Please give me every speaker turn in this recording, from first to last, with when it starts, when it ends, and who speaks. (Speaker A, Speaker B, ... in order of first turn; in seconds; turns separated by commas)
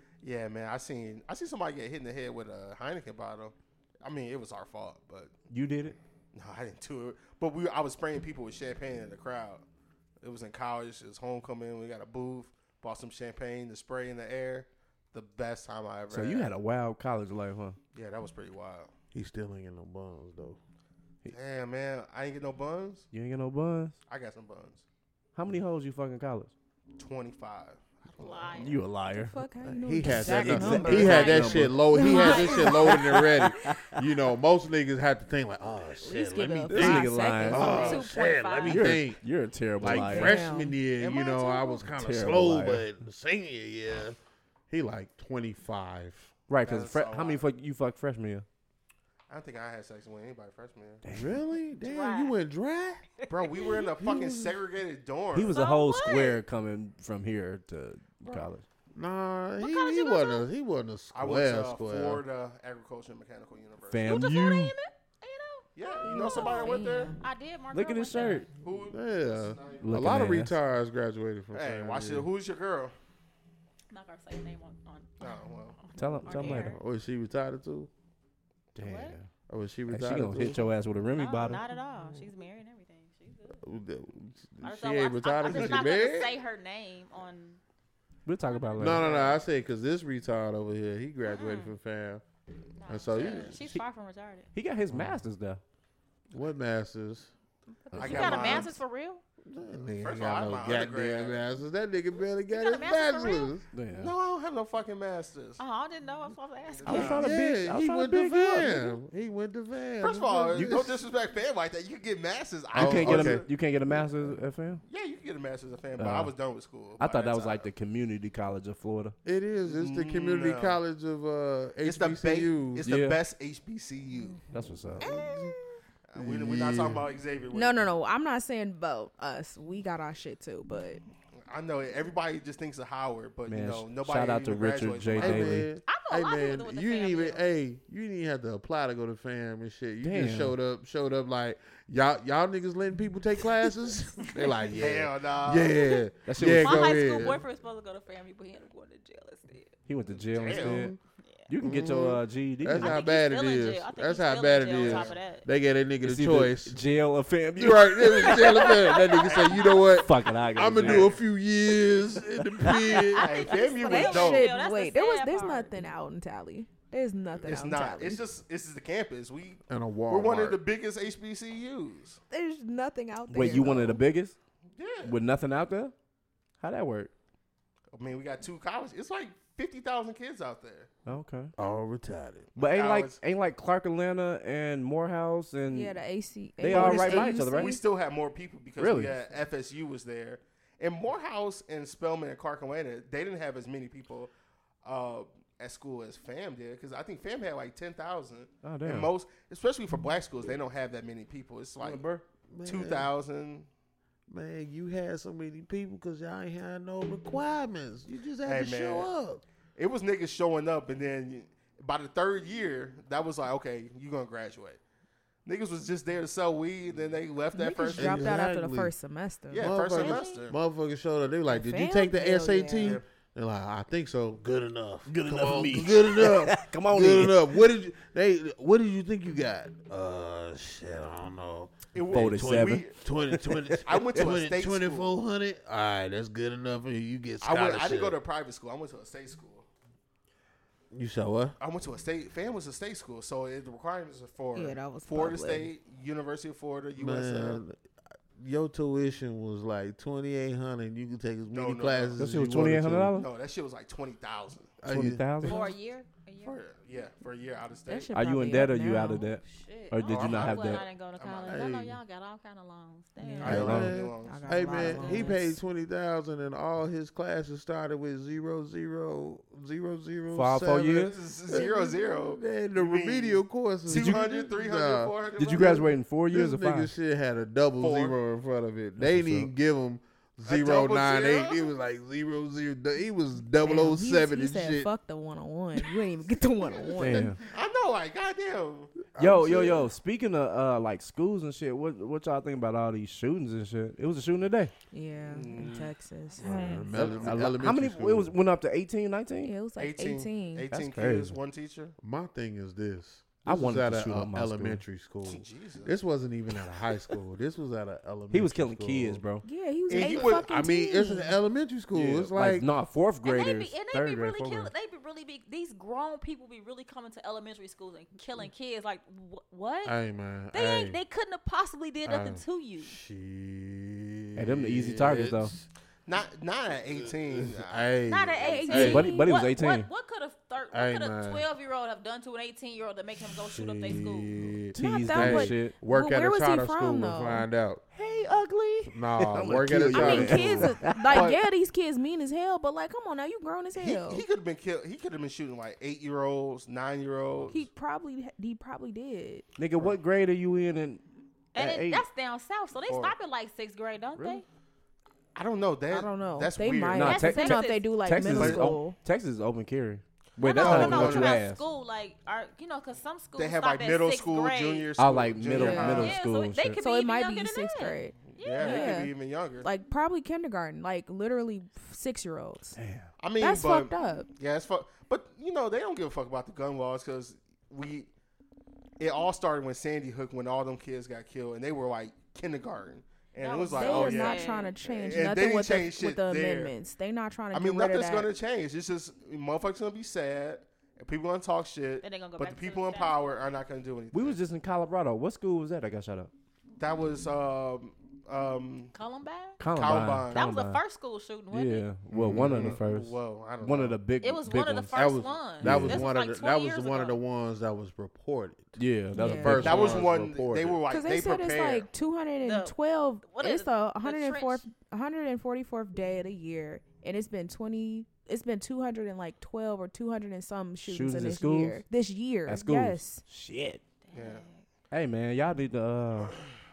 Speaker A: 0.2-5.3, Speaker B: 5.5-6.0, Speaker A: 6.3-9.6, Speaker A: 10.2-16.5, Speaker B: 16.1-17.8, Speaker A: 17.9-18.9, Speaker C: 19.1-20.6, Speaker A: 21.3-23.1, Speaker B: 23.1-23.9, Speaker A: 24.1-24.8, Speaker B: 25.3-26.5, Speaker A: 27.0-28.8, Speaker D: 28.1-28.8, Speaker B: 28.6-29.4, Speaker E: 29.1-33.3, Speaker C: 29.6-39.2, Speaker B: 30.0-34.0, Speaker A: 30.3-31.7, Speaker D: 30.9-32.7, Speaker E: 36.0-38.1, Speaker B: 36.7-38.0, Speaker D: 37.5-38.9, Speaker B: 38.6-40.4, Speaker C: 39.8-44.2, Speaker E: 39.9-40.8, Speaker D: 41.0-41.8, Speaker B: 41.9-42.9, Speaker C: 44.7-46.3, Speaker B: 46.5-48.5, Speaker A: 46.6-47.4, Speaker A: 49.3-51.0, Speaker B: 51.0-51.4, Speaker C: 51.1-53.0, Speaker D: 51.8-52.4, Speaker D: 53.2-53.8, Speaker A: 53.3-55.6, Speaker C: 54.0-54.5, Speaker B: 55.3-58.6, Speaker D: 55.5-56.4, Speaker C: 58.9-62.2, Speaker D: 59.6-60.5, Speaker A: 61.1-64.2, Speaker B: 63.9-64.7, Speaker D: 64.0-68.5, Speaker A: 65.8-67.1, Speaker E: 66.0-67.2, Speaker B: 67.7-68.5, Speaker A: 68.6-70.1, Speaker C: 68.9-72.3, Speaker B: 69.8-70.5, Speaker A: 71.5-72.9, Speaker D: 73.9-76.8, Speaker A: 75.2-75.8, Speaker B: 75.9-76.8, Speaker C: 76.5-77.9, Speaker B: 78.7-79.3, Speaker D: 78.8-79.2, Speaker C: 79.5-80.7, Speaker B: 79.9-81.6, Speaker D: 81.1-83.6, Speaker C: 83.6-86.3, Speaker D: 84.6-87.6, Speaker A: 85.5-85.8, Speaker B: 88.2-89.1, Speaker D: 88.4-89.1, Speaker C: 88.8-92.2, Speaker A: 88.9-89.4, Speaker D: 91.3-91.7, Speaker D: 92.8-94.5, Speaker C: 92.9-93.7, Speaker A: 93.0-93.5, Speaker B: 94.5-95.6, Speaker C: 94.9-95.2, Speaker C: 96.3-97.3, Speaker D: 97.9-99.2, Speaker A: 97.9-98.8, Speaker B: 98.0-98.4, Speaker C: 98.0-98.7, Speaker C: 99.4-103.7, Speaker A: 100.0-101.4, Speaker D: 102.5-103.5, Speaker B: 103.7-104.1, Speaker A: 103.9-105.6, Speaker D: 105.6-107.2, Speaker A: 106.7-107.3, Speaker B: 106.8-108.8, Speaker C: 106.9-111.0, Speaker A: 110.0-113.5, Speaker B: 110.5-110.8, Speaker B: 112.7-114.8, Speaker C: 112.7-113.5, Speaker A: 114.8-117.7, Speaker B: 116.0-116.3, Speaker B: 117.0-119.1, Speaker C: 119.2-122.8, Speaker A: 119.7-120.8, Speaker A: 121.8-124.4, Speaker B: 122.8-123.2, Speaker B: 124.5-125.1, Speaker C: 125.0-125.5, Speaker D: 125.0-125.6, Speaker A: 126.1-127.8, Speaker C: 126.2-127.0, Speaker E: 127.5-131.0, Speaker A: 131.4-135.6, Speaker B: 133.5-135.7, Speaker C: 135.2-147.4, Speaker D: 135.8-137.4, Speaker B: 140.0-140.5, Speaker A: 144.6-145.9, Speaker B: 146.2-146.9, Speaker D: 146.5-149.7, Speaker B: 149.8-150.9, Speaker A: 150.2-150.9, Speaker C: 150.5-151.0, Speaker D: 151.2-151.5, Speaker B: 151.5-153.0, Speaker C: 151.6-156.8, Speaker D: 152.7-155.4, Speaker A: 154.7-155.2, Speaker B: 156.0-158.6, Speaker C: 157.6-163.3, Speaker D: 158.0-159.9, Speaker A: 159.1-160.0, Speaker B: 159.9-161.2, Speaker A: 160.6-161.2, Speaker D: 162.6-165.7, Speaker A: 163.1-164.5, Speaker E: 163.8-168.2, Speaker A: 167.4-172.2, Speaker C: 169.7-170.6, Speaker E: 172.3-173.9, Speaker B: 173.3-174.3, Speaker C: 173.6-174.0, Speaker A: 174.8-175.2, Speaker B: 175.0-175.9, Speaker B: 176.6-177.1, Speaker A: 177.9-180.9, Speaker B: 181.1-181.5, Speaker C: 181.6-182.5, Speaker A: 182.6-183.2, Speaker B: 182.6-186.0, Speaker E: 185.7-187.8, Speaker B: 186.6-187.8, Speaker A: 186.7-194.3, Speaker B: 188.8-189.2, Speaker A: 194.8-202.0, Speaker B: 198.6-199.1, Speaker B: 201.8-202.2, Speaker C: 202.5-203.1, Speaker A: 202.6-203.7, Speaker C: 204.3-209.4, Speaker A: 208.4-209.1, Speaker A: 209.8-214.8, Speaker A: 215.4-218.4, Speaker E: 217.5-219.7, Speaker C: 218.0-218.9, Speaker A: 219.5-220.6, Speaker C: 219.5-238.2, Speaker D: 219.7-220.4, Speaker E: 221.5-223.0, Speaker A: 222.8-223.0, Speaker B: 225.1-227.4, Speaker A: 231.9-232.9, Speaker B: 232.1-234.3, Speaker A: 233.8-235.1, Speaker A: 237.4-239.7, Speaker C: 240.9-241.6, Speaker A: 241.6-247.6, Speaker E: 244.5-245.7, Speaker C: 246.9-247.8, Speaker C: 248.4-253.1, Speaker A: 251.5-252.2, Speaker B: 252.2-253.3, Speaker A: 253.1-254.7, Speaker C: 254.8-255.5, Speaker B: 254.9-255.7, Speaker D: 255.4-256.6, Speaker A: 256.4-258.1, Speaker E: 257.9-259.3, Speaker B: 258.1-260.8, Speaker D: 259.4-263.6, Speaker A: 260.0-261.7, Speaker C: 261.5-262.0, Speaker E: 263.2-265.6, Speaker A: 263.4-265.3, Speaker C: 263.4-284.9, Speaker B: 263.4-263.9, Speaker B: 270.3-271.2, Speaker A: 270.9-275.9, Speaker B: 273.9-274.3, Speaker B: 275.4-276.9, Speaker A: 277.8-278.2, Speaker B: 279.0-279.5, Speaker A: 280.4-281.7, Speaker E: 283.6-287.4, Speaker A: 286.9-289.9, Speaker B: 287.0-287.4, Speaker C: 289.1-289.9, Speaker B: 289.1-294.7, Speaker E: 294.9-296.9, Speaker A: 295.2-297.3, Speaker D: 296.3-296.6, Speaker C: 296.4-298.3, Speaker B: 296.9-299.5, Speaker E: 299.4-300.7, Speaker A: 299.8-301.9, Speaker B: 300.7-301.4, Speaker C: 302.0-309.2, Speaker B: 303.4-304.8, Speaker A: 305.2-305.9, Speaker B: 308.3-309.4, Speaker E: 309.4-311.4, Speaker A: 309.9-310.4, Speaker C: 309.9-312.7, Speaker B: 311.9-314.7, Speaker D: 313.2-319.9, Speaker C: 319.8-321.0, Speaker D: 320.5-322.9, Speaker C: 322.0-325.7, Speaker B: 324.4-325.5, Speaker A: 326.1-328.8, Speaker C: 327.0-329.1, Speaker D: 328.1-334.5, Speaker E: 328.7-329.3, Speaker B: 328.7-329.9, Speaker C: 330.7-331.4, Speaker C: 333.3-337.8, Speaker E: 334.7-337.4, Speaker B: 334.7-335.8, Speaker B: 337.9-341.3, Speaker C: 338.9-340.8, Speaker E: 339.9-344.2, Speaker A: 341.1-341.4, Speaker A: 343.8-347.7, Speaker E: 347.5-349.4, Speaker B: 349.6-351.0, Speaker D: 351.5-354.4, Speaker B: 351.5-352.0, Speaker A: 352.8-353.1, Speaker A: 355.3-357.2, Speaker E: 355.9-359.0, Speaker B: 356.9-361.6, Speaker D: 357.0-357.9, Speaker A: 358.3-358.7, Speaker D: 360.4-364.9, Speaker A: 360.6-361.4, Speaker A: 363.4-366.1, Speaker B: 365.0-366.8, Speaker E: 365.4-366.2, Speaker D: 365.6-369.1, Speaker E: 366.8-372.8, Speaker A: 368.3-369.7, Speaker B: 372.8-373.1, Speaker A: 373.2-378.1, Speaker E: 373.3-374.3, Speaker A: 379.0-386.7, Speaker D: 383.4-384.8, Speaker E: 383.7-388.3, Speaker A: 387.5-394.4, Speaker D: 392.0-393.4, Speaker B: 394.1-396.3, Speaker A: 396.8-398.9, Speaker D: 398.9-399.6, Speaker B: 399.6-400.8, Speaker A: 399.7-400.5, Speaker D: 400.3-401.9, Speaker B: 401.5-405.0, Speaker C: 402.1-402.8, Speaker A: 402.3-404.0, Speaker D: 404.2-407.2, Speaker C: 404.9-410.8, Speaker B: 405.6-406.1, Speaker B: 408.8-410.1, Speaker E: 409.1-409.9, Speaker A: 409.6-411.9, Speaker E: 410.9-423.2, Speaker D: 412.4-414.6, Speaker B: 420.8-421.8, Speaker B: 422.5-423.8, Speaker D: 424.0-424.6, Speaker A: 424.1-424.4, Speaker B: 424.9-426.5